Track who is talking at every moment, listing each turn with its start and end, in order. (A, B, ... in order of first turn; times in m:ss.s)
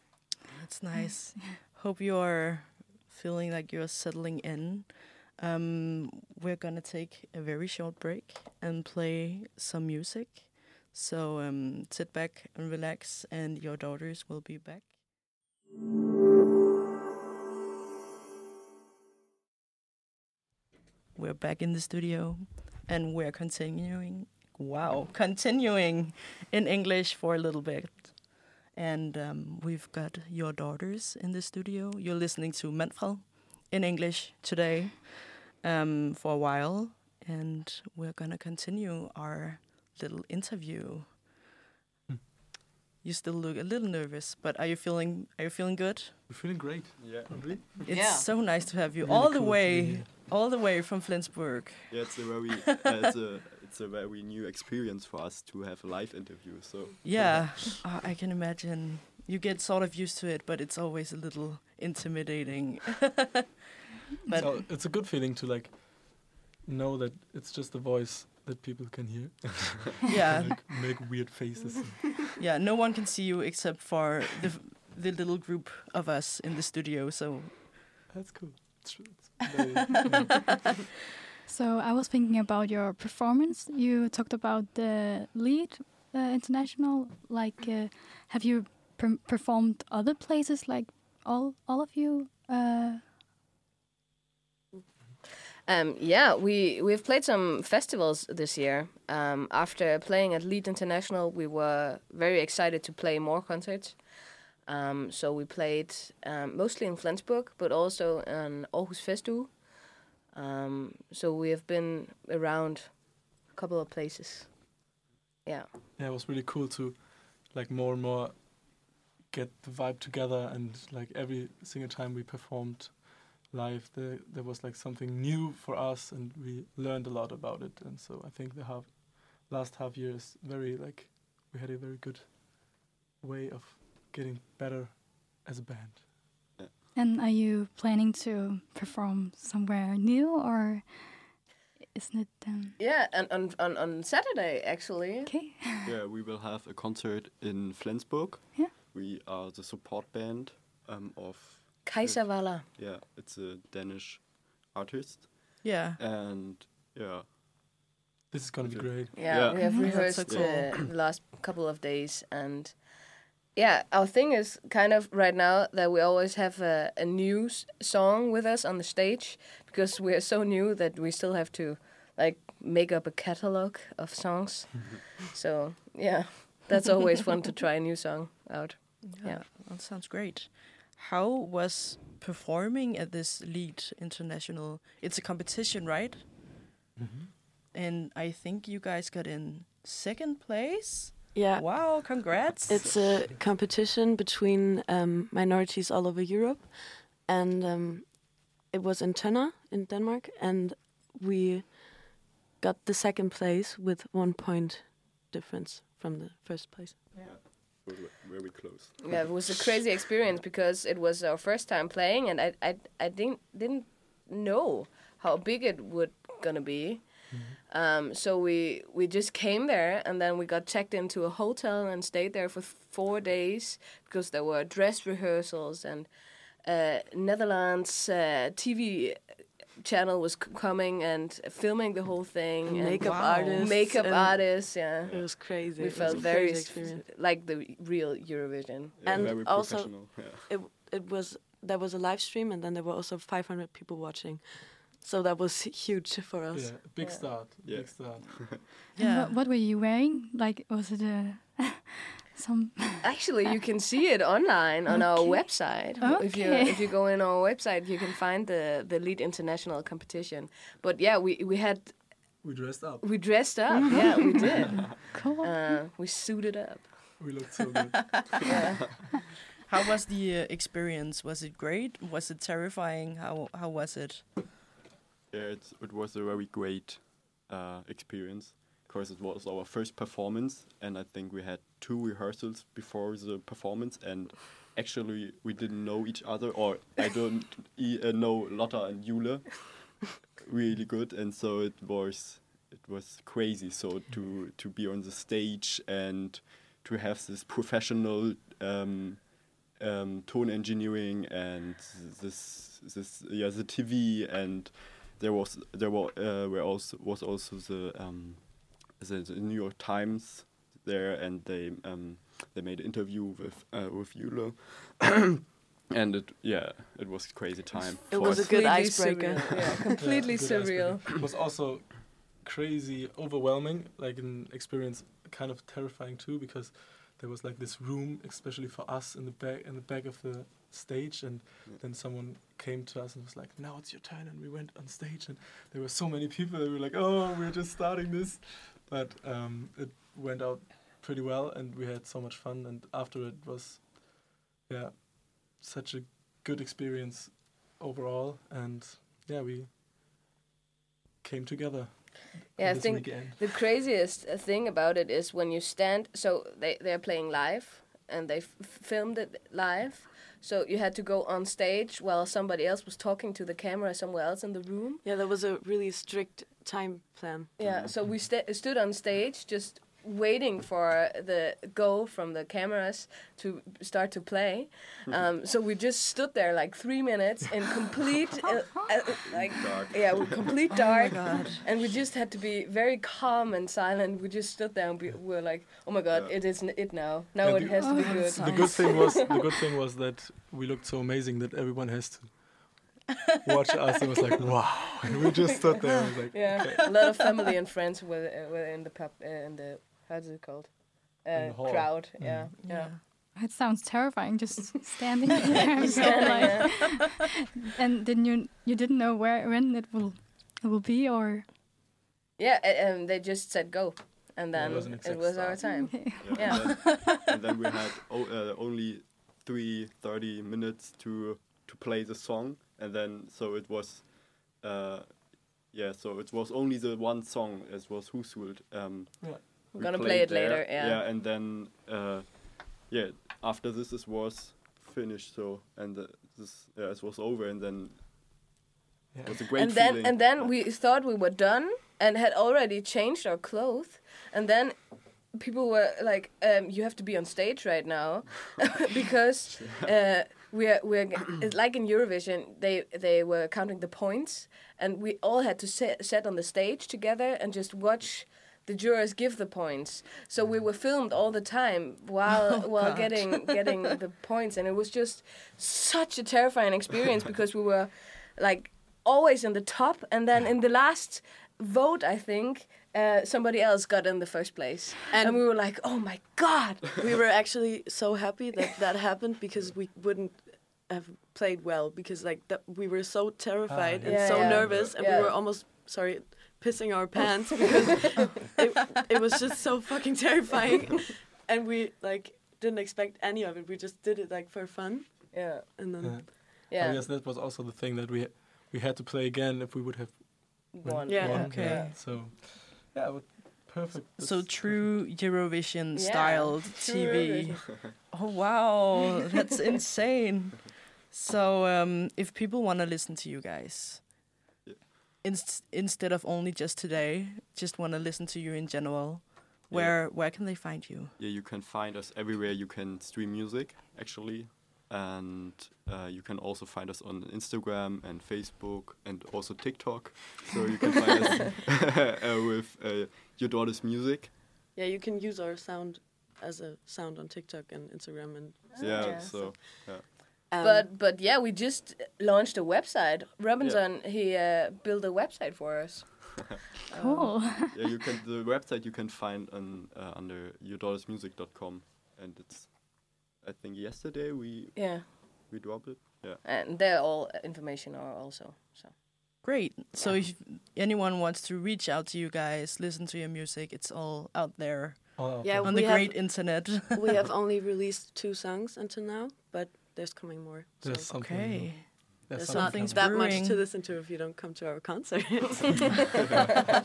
0:00.5-0:15.0 A
0:00.9-0:01.4 B
0:21.1-0:41.2 A
0:43.0-0:46.3 A
0:46.3-0:47.8 C
0:47.0-0:47.9 D
0:47.8-0:53.0 A
0:47.9-0:48.3 E
0:49.0-0:50.3 C
0:51.9-0:57.8 D
0:57.0-1:03.4 A
1:04.2-1:04.7 A
1:04.3-1:12.3 C
1:10.1-1:10.7 A
1:12.4-1:18.0 A
1:18.1-1:20.2 C
1:19.9-1:20.5 A
1:21.4-1:33.0 B
1:35.6-1:54.7 E
1:56.0-2:16.1 C
2:16.9-2:21.4 B
2:21.9-2:22.8 B
2:22.8-2:25.3 E
2:25.3-2:25.9 B
2:25.8-2:37.3 D
2:31.8-2:32.7 E
2:35.6-2:36.0 A
2:38.3-2:39.3 C
2:38.6-2:40.8 D
2:39.1-2:59.4 E
2:39.4-2:40.7 A
2:39.6-2:39.9 B
2:59.0-3:06.6 A
3:07.0-3:07.3 C
3:07.7-3:13.1 A
3:11.3-3:27.1 F
3:27.2-3:29.6 D
3:29.0-3:59.2 E
3:37.3-3:37.6 C
3:52.6-3:57.0 F
3:53.0-3:53.8 A
3:55.0-3:56.4 D
3:59.0-4:00.5 D
3:59.0-4:06.8 F
4:06.5-4:08.4 C
4:07.0-4:07.4 E
4:07.6-4:08.7 D
4:08.9-4:09.4 A
4:09.0-4:13.3 B
4:13.0-4:22.4 E
4:14.9-4:16.9 B
4:22.4-4:23.5 C
4:23.0-4:27.3 E
4:23.7-4:24.2 F
4:23.9-4:25.8 B
4:27.2-4:28.1 C
4:28.4-4:29.2 E
4:29.6-4:34.4 A
4:35.3-5:19.9 D
5:18.1-5:19.9 F
5:18.2-5:21.0 E
5:20.0-5:49.7 C
5:51.2-5:53.5 C
5:52.6-6:05.0 E
6:05.0-6:07.5 F
6:07.6-6:29.6 E
6:07.6-6:08.1 D
6:19.3-6:21.0 D
6:20.7-6:21.7 A
6:26.1-6:26.6 D
6:27.4-6:32.9 C
6:27.8-6:29.3 A
6:27.8-6:28.2 B
6:33.4-6:33.7 A
6:33.4-6:37.1 C
6:35.8-6:37.1 A
6:36.3-6:42.9 E
6:41.3-6:42.6 C
6:42.6-6:43.0 A
6:43.3-6:51.5 B
6:45.6-6:46.9 E
6:45.7-6:46.9 A
6:52.4-6:57.2 E
6:54.5-6:55.8 C
6:54.6-7:18.3 D
6:55.6-6:56.7 B
6:56.7-6:57.2 A
7:09.2-7:09.7 C
7:09.7-7:11.0 E
7:19.1-7:19.5 C
7:19.2-7:20.6 D
7:19.5-7:57.0 E
7:42.4-7:43.8 A
7:55.1-7:55.4 F
7:57.0-8:16.4 F
8:03.7-8:04.6 C
8:04.0-8:05.3 E
8:04.4-8:05.4 D
8:15.3-8:17.1 E
8:16.0-8:25.0 C
8:20.7-8:22.0 E
8:21.0-8:21.6 F
8:21.2-8:22.0 A
8:24.2-8:34.2 A
8:25.9-8:27.6 E
8:27.6-8:28.0 D
8:34.6-8:35.1 D
8:35.2-8:41.2 A
8:39.7-8:40.2 D
8:41.2-8:54.3 D
8:54.7-8:59.9 F
8:58.7-8:59.9 E
8:58.8-9:00.5 D
9:00.5-9:00.9 F
9:00.6-9:06.4 E
9:06.9-9:07.4 A
9:06.9-9:07.8 B
9:07.6-9:16.4 D
9:14.7-9:15.1 E
9:16.4-9:19.0 E
9:19.4-9:27.2 A
9:25.2-9:26.0 C
9:25.4-9:31.1 F
9:30.8-9:33.4 C
9:31.1-9:33.6 A
9:32.3-9:36.0 F